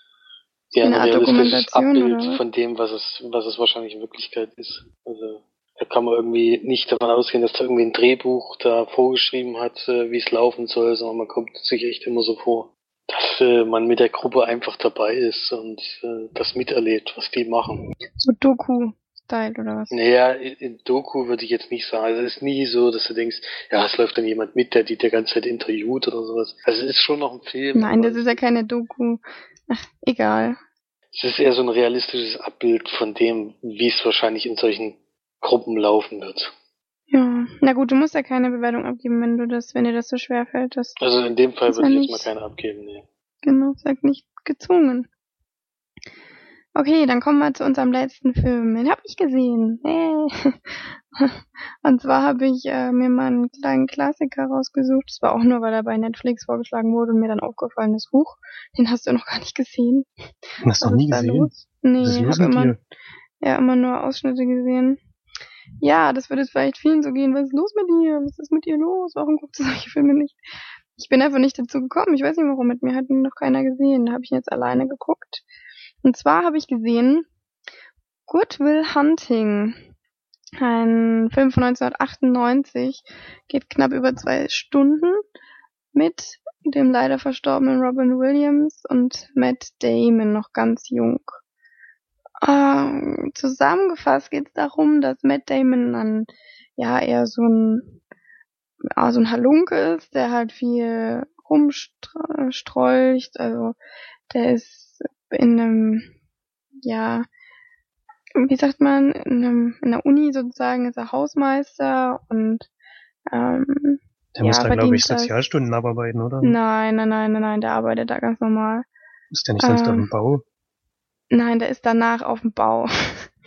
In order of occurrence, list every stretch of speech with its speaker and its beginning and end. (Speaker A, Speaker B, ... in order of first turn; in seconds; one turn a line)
Speaker A: 0.7-17.8
Speaker B: 0.8-2.4
Speaker B: 18.2-19.9
Speaker A: 19.9-28.4
Speaker B: 27.7-30.6
Speaker A: 31.1-36.5
Speaker B: 37.1-41.0
Speaker A: 41.0-43.1
Speaker B: 41.7-42.3
Speaker B: 43.4-45.1
Speaker B: 46.7-60.1
Speaker C: 60.6-62.8
Speaker B: 60.8-62.8
Speaker B: 63.4-65.0
Speaker B: 65.8-70.4
Speaker B: 71.0-75.4
Speaker B: 76.0-77.3
Speaker B: 78.3-79.8
Speaker B: 80.6-85.2
Speaker B: 85.9-91.4
Speaker B: 92.4-97.9
Speaker B: 99.0-103.8
Speaker B: 104.3-106.1
Speaker B: 106.8-107.3
Speaker B: 108.4-112.7
Speaker B: 113.3-115.3
Speaker C: 114.3-116.6
Speaker B: 116.4-118.9
Speaker C: 119.3-120.4
Speaker B: 119.6-120.1
Speaker B: 121.3-123.3